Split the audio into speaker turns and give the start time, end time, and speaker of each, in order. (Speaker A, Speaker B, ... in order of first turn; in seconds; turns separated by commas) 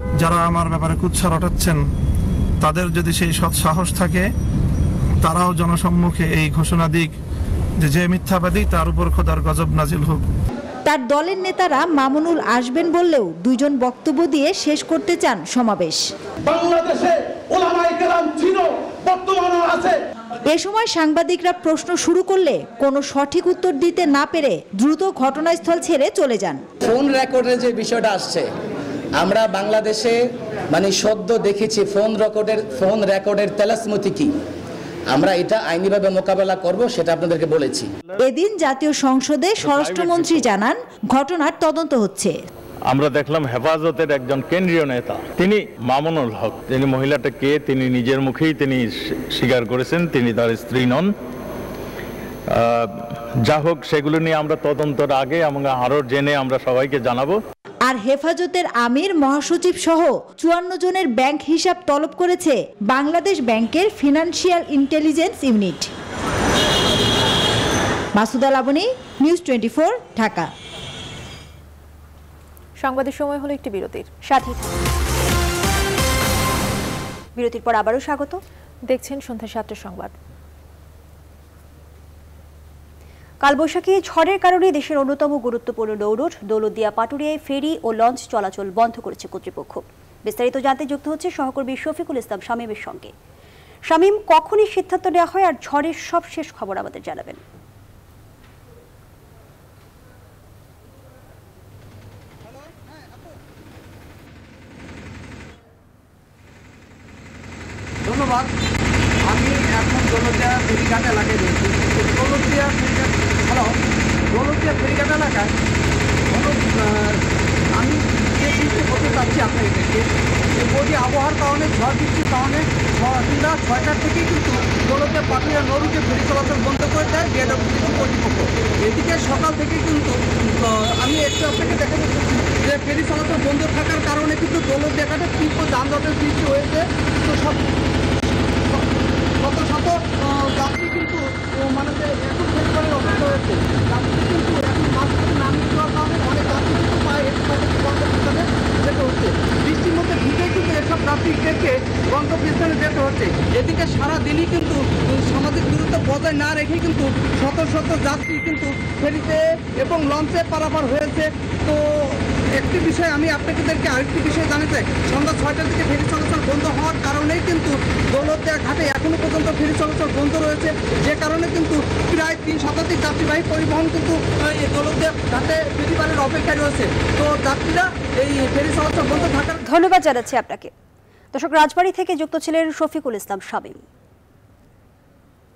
Speaker A: 0.2-1.8, Speaker A: 2.6-4.3, Speaker A: 5.2-7.2, Speaker A: 7.8-10.3, Speaker B: 10.8-16.1, Speaker C: 16.5-20.0, Speaker B: 20.5-26.6, Speaker D: 26.8-28.5, Speaker D: 29.2-30.2, Speaker D: 30.7-34.3, Speaker D: 35.1-37.9, Speaker B: 38.2-42.3, Speaker E: 40.0-40.4, Speaker E: 42.9-51.1, Speaker E: 52.5-57.4, Speaker B: 57.9-65.9, Speaker B: 68.2-70.5, Speaker F: 72.8-74.1, Speaker G: 74.3-74.8, Speaker G: 77.4-78.4, Speaker F: 78.9-80.1, Speaker G: 83.4-93.1, Speaker G: 93.9-97.4, Speaker H: 108.1-108.5, Speaker H: 109.3-113.8, Speaker H: 114.3-115.5, Speaker H: 116.3-117.2, Speaker H: 117.8-120.0, Speaker H: 120.6-137.6, Speaker H: 139.4-179.6, Speaker G: 179.7-180.7, Speaker G: 181.3-183.8